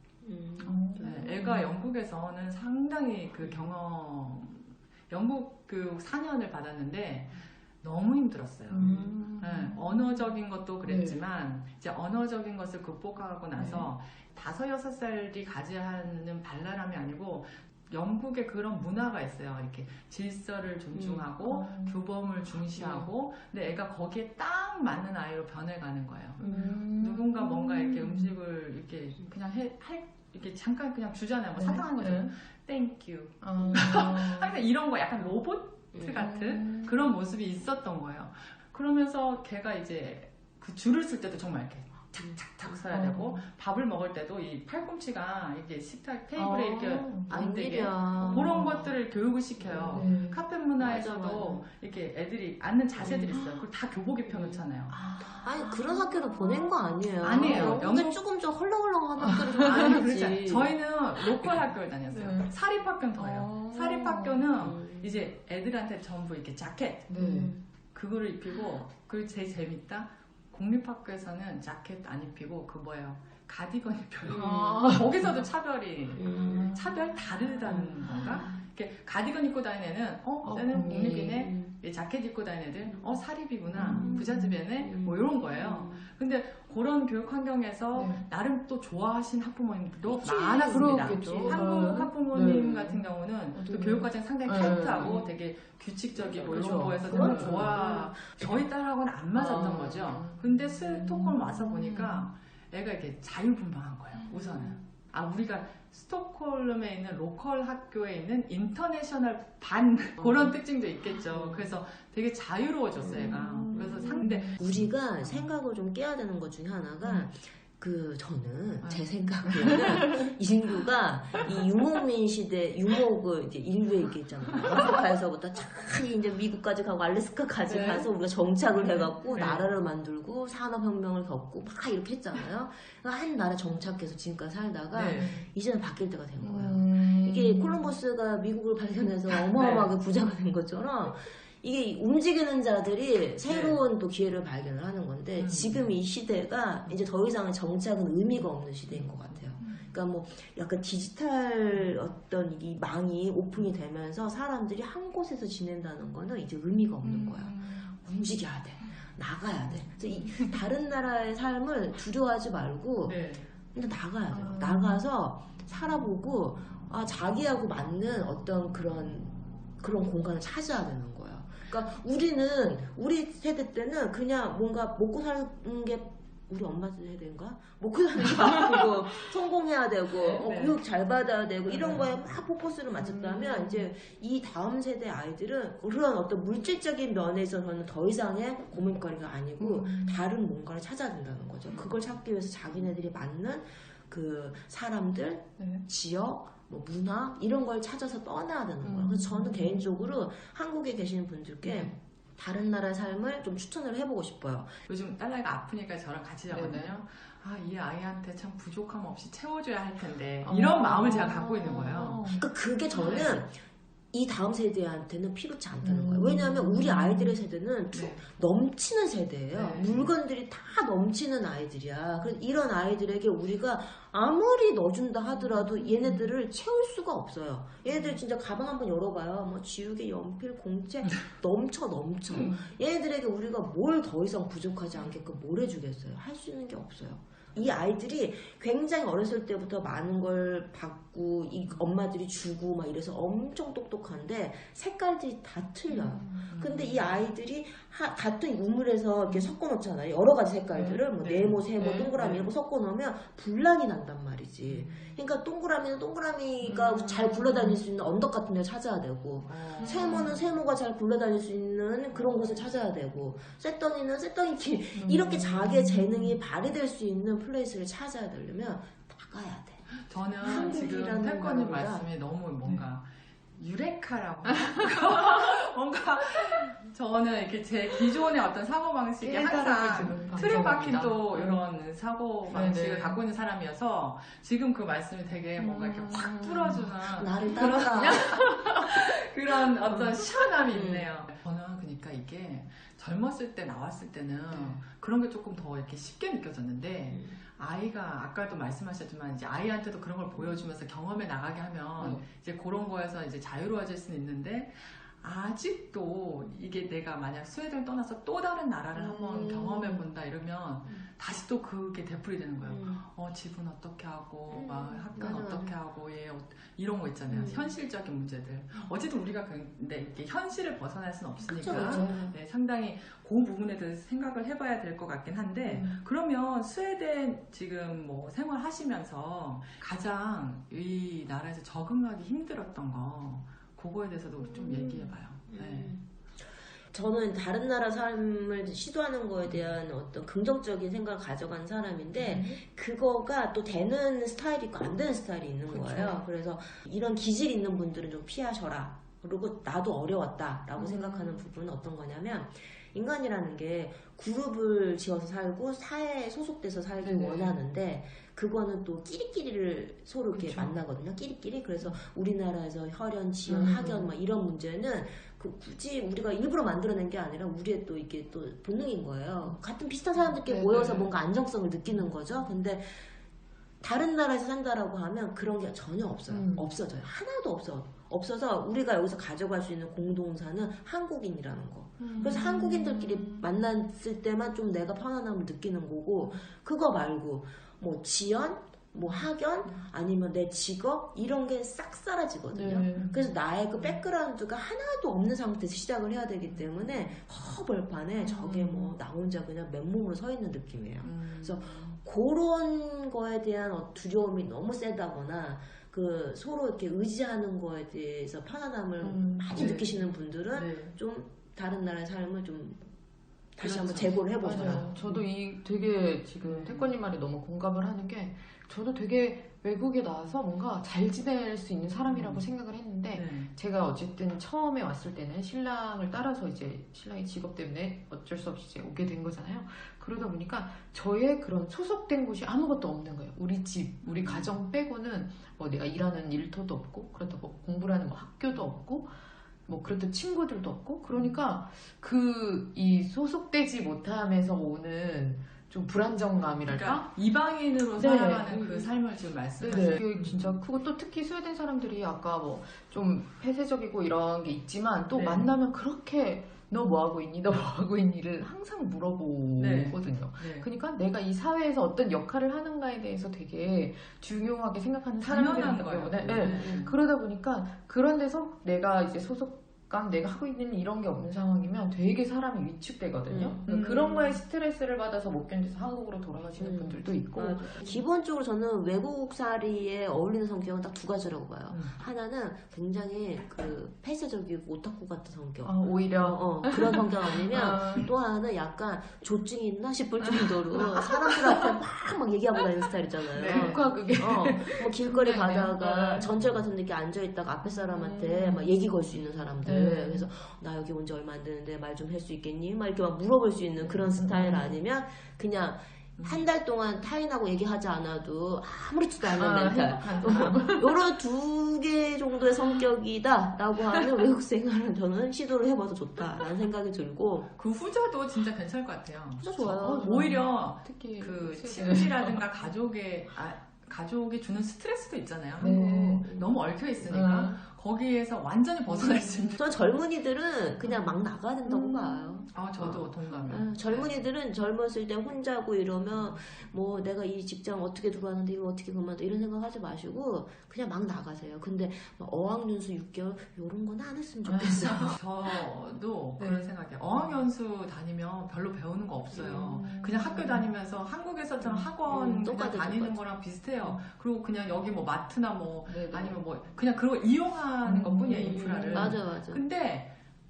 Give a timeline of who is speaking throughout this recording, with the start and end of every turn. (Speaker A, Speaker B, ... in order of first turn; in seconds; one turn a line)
Speaker A: 0.2-1.2
Speaker B: 0.6-1.7
Speaker C: 0.9-55.0
Speaker B: 8.7-10.3
Speaker A: 8.8-9.1
Speaker B: 10.8-11.2
Speaker B: 13.6-13.9
Speaker A: 20.9-21.3
Speaker B: 21.4-22.0
Speaker B: 22.8-23.1
Speaker B: 26.4-28.3
Speaker A: 26.4-26.7
Speaker B: 31.6-32.3
Speaker B: 33.4-34.6
Speaker B: 36.2-37.0
Speaker B: 42.9-43.4
Speaker B: 46.4-47.3
Speaker A: 47.3-48.7
Speaker B: 48.2-48.9
Speaker B: 49.6-50.4
Speaker A: 50.8-51.6
Speaker B: 53.0-53.7
Speaker B: 54.9-57.9
Speaker A: 55.2-60.7
Speaker C: 57.2-58.2
Speaker B: 59.2-59.9
Speaker C: 59.6-67.1
Speaker B: 62.1-62.5
Speaker B: 63.2-64.5
Speaker A: 64.6-65.1
Speaker B: 67.1-67.6
Speaker A: 67.2-67.6
Speaker C: 67.9-114.7
Speaker A: 74.3-74.8
Speaker B: 74.3-75.4
Speaker A: 76.2-76.7
Speaker B: 76.3-78.5
Speaker A: 77.7-78.6
Speaker B: 80.4-81.4
Speaker A: 81.3-81.8
Speaker B: 83.7-84.6
Speaker A: 83.9-84.3
Speaker A: 84.8-86.1
Speaker B: 87.9-88.3
Speaker A: 90.0-91.5
Speaker B: 90.6-95.3
Speaker A: 96.2-98.5
Speaker B: 96.4-98.0
Speaker B: 99.3-102.3
Speaker A: 104.3-104.8
Speaker B: 110.2-110.5
Speaker B: 113.0-114.6
Speaker A: 114.6-163.2
Speaker C: 118.8-119.1
Speaker B: 119.5-120.3
Speaker C: 127.7-128.1
Speaker B: 128.8-129.3
Speaker C: 128.9-129.7
Speaker C: 134.9-135.4
Speaker B: 135.1-135.5
Speaker B: 136.4-137.9
Speaker C: 139.5-139.9
Speaker C: 143.5-143.8
Speaker C: 145.4-145.9
Speaker C: 149.0-149.8
Speaker B: 157.0-158.0
Speaker B: 160.3-160.5
Speaker C: 163.1-163.5
Speaker A: 163.7-204.8
Speaker B: 164.3-165.0
Speaker B: 178.5-178.8
Speaker B: 180.2-180.5
Speaker C: 180.4-180.8
Speaker B: 181.7-182.1
Speaker B: 183.0-183.9
Speaker B: 189.6-190.2
Speaker B: 195.6-195.9
Speaker B: 198.8-200.0
Speaker B: 201.6-201.9
Speaker C: 204.9-212.3
Speaker B: 206.5-206.9
Speaker B: 210.4-213.3
Speaker A: 212.4-213.6
Speaker C: 212.9-213.4
Speaker A: 214.1-272.1
Speaker B: 215.8-217.4
Speaker C: 217.9-218.2
Speaker C: 219.5-220.1
Speaker B: 225.5-226.3
Speaker B: 232.4-232.7
Speaker B: 245.9-246.6
Speaker C: 246.5-247.2
Speaker B: 250.7-251.0
Speaker C: 251.2-251.6
Speaker B: 251.8-252.5
Speaker B: 256.6-257.8
Speaker C: 259.5-260.4
Speaker B: 259.8-260.4
Speaker C: 262.1-262.6
Speaker B: 264.9-266.4
Speaker C: 270.1-273.1
Speaker B: 270.4-270.9
Speaker C: 273.6-336.0
Speaker B: 279.2-281.6
Speaker B: 282.5-283.2
Speaker B: 285.6-286.9
Speaker A: 287.2-288.3
Speaker B: 287.5-288.9
Speaker B: 289.8-290.3
Speaker A: 290.7-291.1
Speaker B: 294.5-294.8
Speaker A: 297.1-297.4
Speaker B: 302.0-302.3
Speaker B: 309.0-310.1
Speaker A: 312.7-313.0
Speaker A: 314.5-315.8
Speaker A: 317.3-317.7
Speaker A: 321.5-322.3
Speaker B: 321.7-322.4
Speaker B: 325.6-326.0
Speaker B: 334.4-335.1
Speaker A: 335.5-336.0
Speaker A: 336.9-373.1
Speaker C: 339.5-339.7
Speaker B: 342.2-342.6
Speaker B: 345.7-346.1
Speaker B: 350.8-351.4
Speaker B: 357.0-357.6
Speaker B: 360.4-360.8
Speaker B: 363.5-364.1
Speaker B: 370.2-371.1
Speaker A: 373.8-412.9
Speaker B: 376.3-376.7
Speaker B: 382.0-383.5
Speaker B: 392.5-393.2
Speaker C: 393.8-394.0
Speaker C: 396.5-397.2
Speaker B: 398.2-398.9
Speaker C: 401.0-402.0
Speaker B: 409.0-409.8
Speaker C: 409.5-410.0
Speaker C: 410.5-410.9
Speaker A: 413.6-414.9
Speaker C: 413.6-415.2
Speaker B: 414.4-447.1
Speaker C: 416.4-416.9
Speaker C: 422.1-422.5
Speaker C: 423.1-423.5
Speaker C: 434.0-434.6
Speaker C: 446.7-450.6
Speaker B: 448.0-448.5
Speaker A: 448.5-448.9
Speaker B: 449.6-478.0
Speaker C: 455.1-455.5
Speaker C: 459.6-460.7
Speaker C: 465.2-466.9
Speaker A: 466.3-466.9
Speaker A: 473.3-473.7
Speaker C: 473.7-474.4
Speaker A: 476.6-517.5
Speaker C: 481.7-481.9
Speaker B: 485.6-488.1
Speaker B: 490.8-491.6
Speaker B: 493.3-496.3
Speaker B: 497.6-498.7
Speaker B: 499.6-500.3
Speaker B: 504.1-504.8
Speaker C: 506.2-506.5
Speaker B: 509.2-510.9
Speaker C: 517.6-529.6
Speaker A: 519.4-520.2
Speaker B: 519.8-522.4
Speaker B: 525.6-526.4
Speaker A: 525.6-526.5
Speaker B: 527.1-527.6
Speaker B: 528.9-529.5
Speaker A: 529.6-545.2
Speaker B: 531.7-532.5
Speaker C: 532.5-534.2
Speaker B: 544.5-545.2
Speaker C: 545.1-560.1
Speaker B: 546.4-547.3
Speaker B: 549.4-550.7
Speaker B: 551.6-551.9
Speaker A: 552.1-553.2
Speaker B: 555.9-556.4
Speaker B: 557.8-559.2
Speaker A: 558.5-559.6